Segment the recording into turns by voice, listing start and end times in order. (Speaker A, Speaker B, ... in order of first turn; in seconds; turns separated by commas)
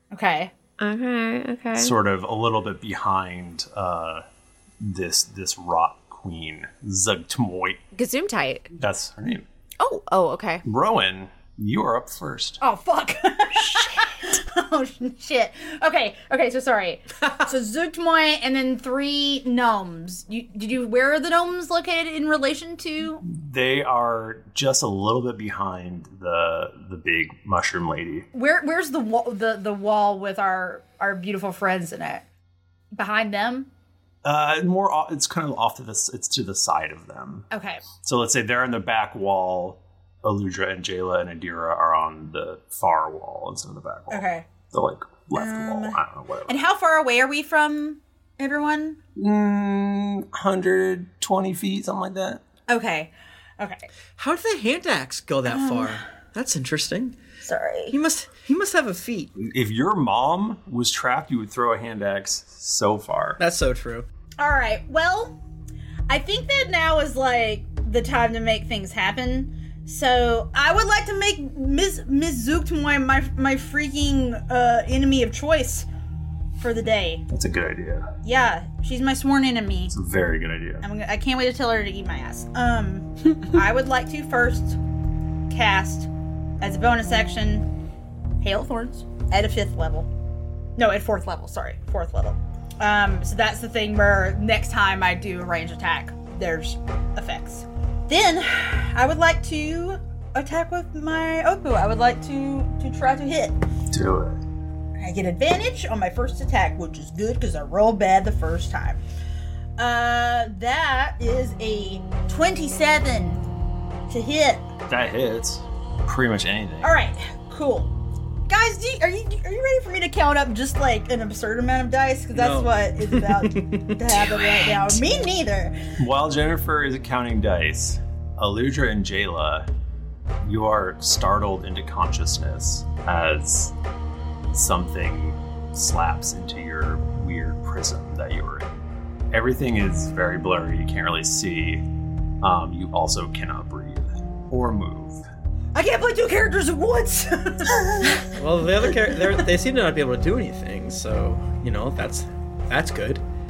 Speaker A: 0.1-0.5, Speaker B: 0.8-1.9, Speaker C: 1.8-4.2, Speaker C: 4.8-7.8, Speaker B: 7.9-8.7, Speaker C: 8.7-9.4, Speaker B: 9.8-10.6, Speaker C: 10.6-12.6, Speaker A: 12.6-23.2, Speaker B: 13.7-14.1, Speaker C: 23.2-28.3, Speaker A: 28.3-32.2, Speaker A: 32.9-33.7, Speaker C: 34.2-46.6, Speaker A: 37.5-37.9, Speaker A: 44.1-44.5, Speaker A: 45.3-49.0, Speaker C: 49.1-52.4, Speaker A: 52.7-53.9, Speaker D: 54.2-57.1, Speaker A: 55.5-56.0, Speaker A: 57.4-57.9, Speaker D: 57.9-59.3, Speaker C: 59.4-63.4, Speaker D: 63.4-64.0, Speaker A: 64.4-65.4, Speaker A: 66.1-75.9, Speaker A: 76.6-77.2, Speaker C: 77.3-78.1, Speaker A: 78.2-79.9, Speaker C: 79.9-80.8, Speaker A: 80.8-84.8, Speaker A: 85.5-86.1, Speaker A: 86.6-87.7, Speaker A: 88.4-90.1, Speaker A: 90.8-103.6, Speaker C: 103.9-104.4, Speaker A: 105.0-109.0, Speaker A: 109.8-113.4, Speaker A: 114.1-114.7, Speaker C: 114.9-116.9, Speaker A: 116.8-117.9, Speaker A: 118.5-125.8, Speaker D: 122.3-124.2, Speaker B: 124.6-124.9, Speaker C: 126.0-129.7, Speaker C: 130.4-133.7, Speaker C: 134.5-138.7, Speaker C: 139.3-141.8, Speaker C: 142.4-145.2, Speaker A: 145.7-148.3, Speaker D: 148.4-153.2